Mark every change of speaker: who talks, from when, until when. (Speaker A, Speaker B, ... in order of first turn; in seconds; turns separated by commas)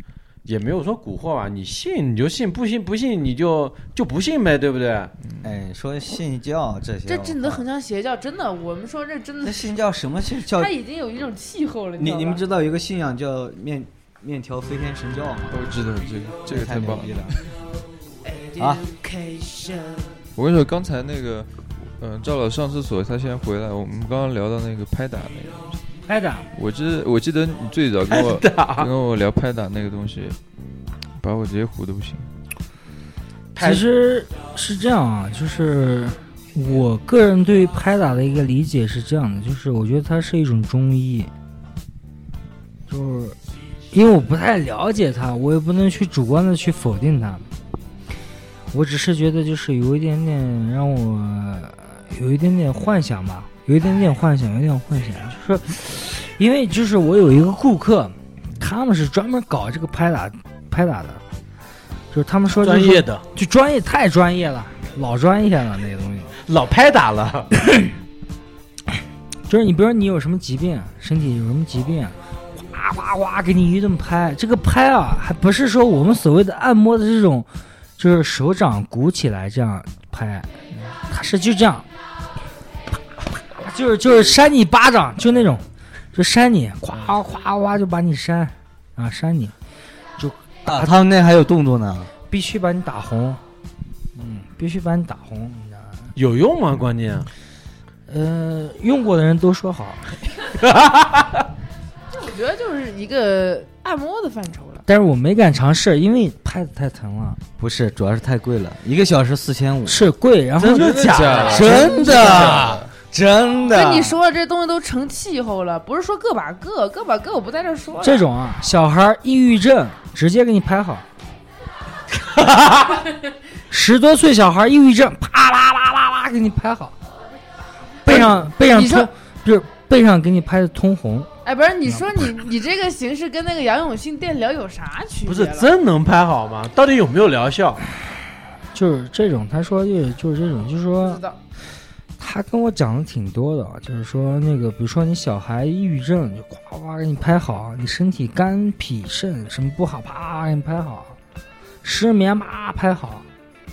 Speaker A: 0.5-5.1, Speaker B: 5.2-5.5, Speaker C: 5.4-7.7, Speaker D: 7.1-9.7, Speaker C: 9.4-10.7, Speaker D: 10.5-12.4, Speaker C: 12.0-15.6, Speaker B: 15.5-17.5, Speaker C: 16.4-17.4, Speaker D: 18.2-20.2, Speaker C: 18.6-18.8, Speaker B: 20.4-25.8, Speaker E: 26.1-26.5, Speaker B: 26.5-30.4, Speaker A: 28.1-28.9, Speaker B: 31.1-32.3, Speaker A: 33.6-33.9, Speaker E: 33.6-41.3, Speaker E: 42.9-43.4, Speaker E: 43.9-47.5, Speaker E: 48.7-61.2, Speaker E: 62.1-66.4, Speaker A: 62.6-63.3, Speaker A: 66.5-67.5, Speaker E: 67.6-67.9, Speaker E: 69.5-81.9, Speaker E: 83.6-89.6, Speaker E: 90.2-90.9, Speaker C: 90.7-92.1, Speaker E: 92.3-93.4, Speaker E: 94.2-96.1, Speaker A: 96.2-97.3, Speaker E: 98.1-100.2, Speaker A: 100.7-101.2, Speaker D: 102.1-104.8, Speaker E: 104.9-107.4, Speaker C: 107.6-110.0, Speaker E: 109.9-112.8, Speaker A: 110.6-112.7, Speaker B: 110.8-112.9, Speaker C: 111.4-114.2, Speaker D: 113.7-118.3, Speaker E: 118.0-121.1, Speaker E: 123.7-127.0, Speaker D: 128.1-129.1, Speaker E: 128.1-131.3, Speaker D: 131.4-135.7, Speaker A: 135.3-137.8, Speaker E: 138.7-141.2, Speaker D: 141.0-141.4, Speaker E: 142.2-151.2, Speaker E: 151.8-153.3